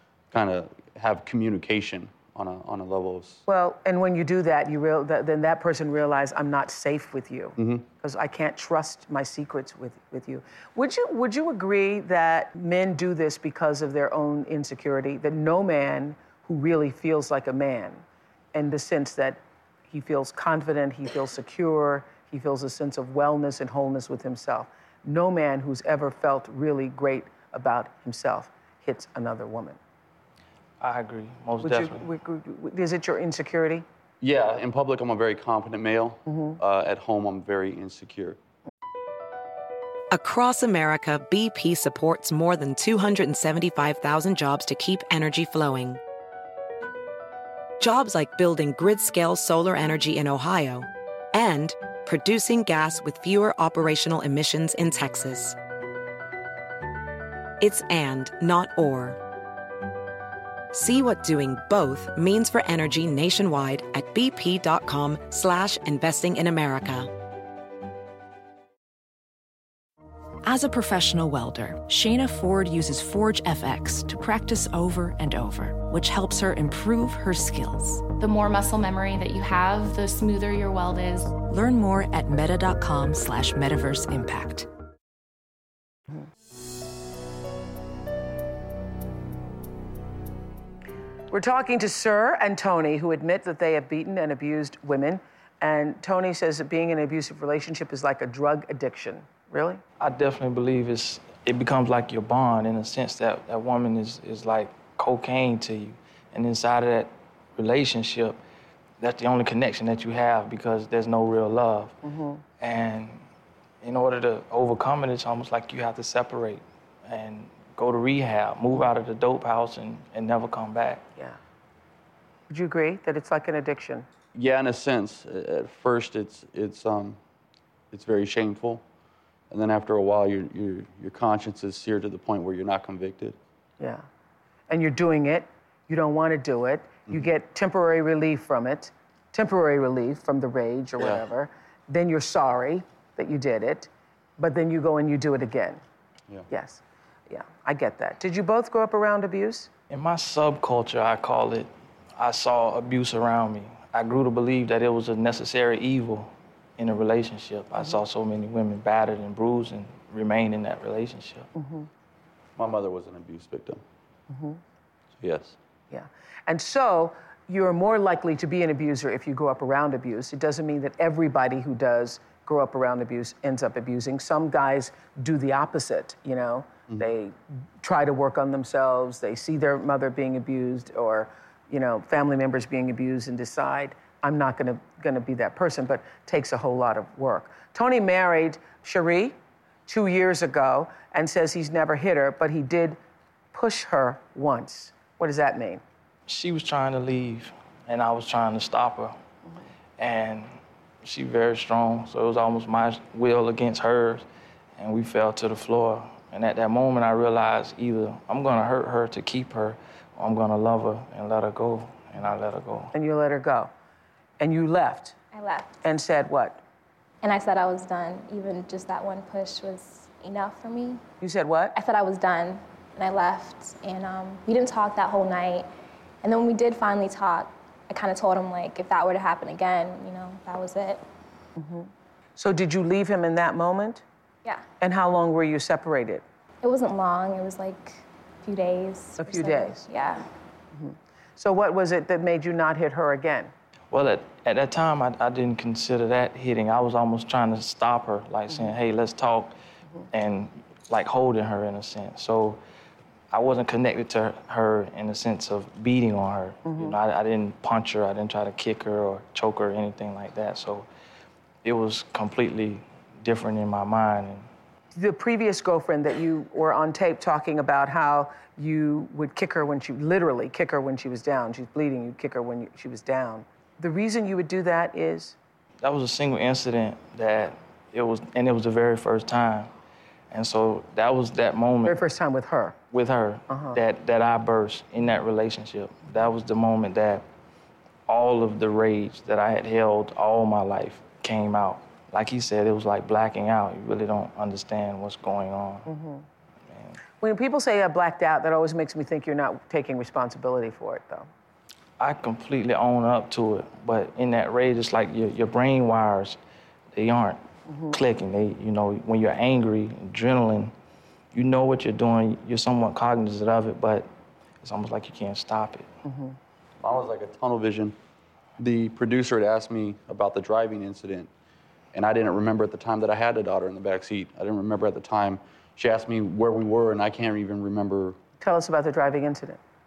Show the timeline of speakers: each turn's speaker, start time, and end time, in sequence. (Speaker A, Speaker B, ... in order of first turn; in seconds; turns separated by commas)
Speaker A: 0.3-3.4, Speaker B: 3.5-29.8, Speaker A: 7.6-7.8, Speaker C: 30.8-32.1, Speaker B: 31.6-33.9, Speaker A: 34.2-38.4, Speaker B: 36.3-36.6, Speaker D: 40.1-46.0, Speaker D: 47.8-55.6, Speaker D: 57.6-59.2, Speaker D: 60.7-67.1, Speaker E: 70.4-78.1, Speaker F: 78.2-81.4, Speaker E: 81.5-84.7, Speaker B: 91.3-99.8, Speaker C: 100.0-108.4, Speaker C: 109.0-112.0, Speaker B: 112.0-112.4, Speaker C: 112.6-113.2, Speaker C: 113.8-121.0, Speaker B: 122.5-124.1, Speaker A: 124.3-127.2, Speaker A: 127.9-128.8, Speaker A: 129.5-133.4, Speaker B: 133.8-134.0, Speaker B: 134.7-145.8, Speaker B: 146.5-149.7, Speaker C: 149.9-161.5, Speaker B: 161.6-161.9, Speaker A: 162.6-163.8, Speaker B: 164.3-164.6, Speaker A: 165.2-165.6, Speaker B: 165.9-189.3, Speaker B: 189.9-193.0, Speaker B: 193.5-195.8, Speaker C: 196.3-199.2, Speaker C: 200.0-204.2, Speaker C: 204.8-212.9, Speaker B: 212.9-213.7, Speaker B: 214.4-215.2, Speaker G: 215.3-215.8, Speaker B: 215.8-216.6, Speaker G: 217.2-221.0, Speaker B: 221.2-221.7, Speaker G: 221.8-225.7, Speaker G: 226.2-231.0, Speaker B: 231.6-234.0, Speaker B: 234.8-236.2, Speaker G: 236.6-240.2, Speaker B: 239.2-239.8, Speaker B: 240.7-243.5, Speaker C: 243.9-249.6, Speaker C: 250.1-252.6, Speaker C: 253.3-260.9, Speaker B: 256.7-256.9, Speaker C: 261.6-264.5, Speaker B: 265.0-275.4, Speaker C: 275.8-279.7, Speaker C: 280.3-282.0, Speaker B: 281.9-282.8, Speaker C: 282.9-287.2, Speaker B: 283.5-283.8, Speaker C: 288.1-295.9, Speaker B: 295.9-296.2, Speaker C: 296.7-297.0, Speaker B: 297.2-301.3, Speaker C: 302.0-306.4, Speaker C: 306.9-310.7, Speaker B: 307.7-308.0, Speaker C: 311.3-314.1, Speaker C: 314.6-315.9, Speaker B: 316.1-316.4, Speaker A: 316.8-318.0, Speaker A: 318.6-321.3, Speaker A: 321.9-328.2, Speaker B: 328.4-329.6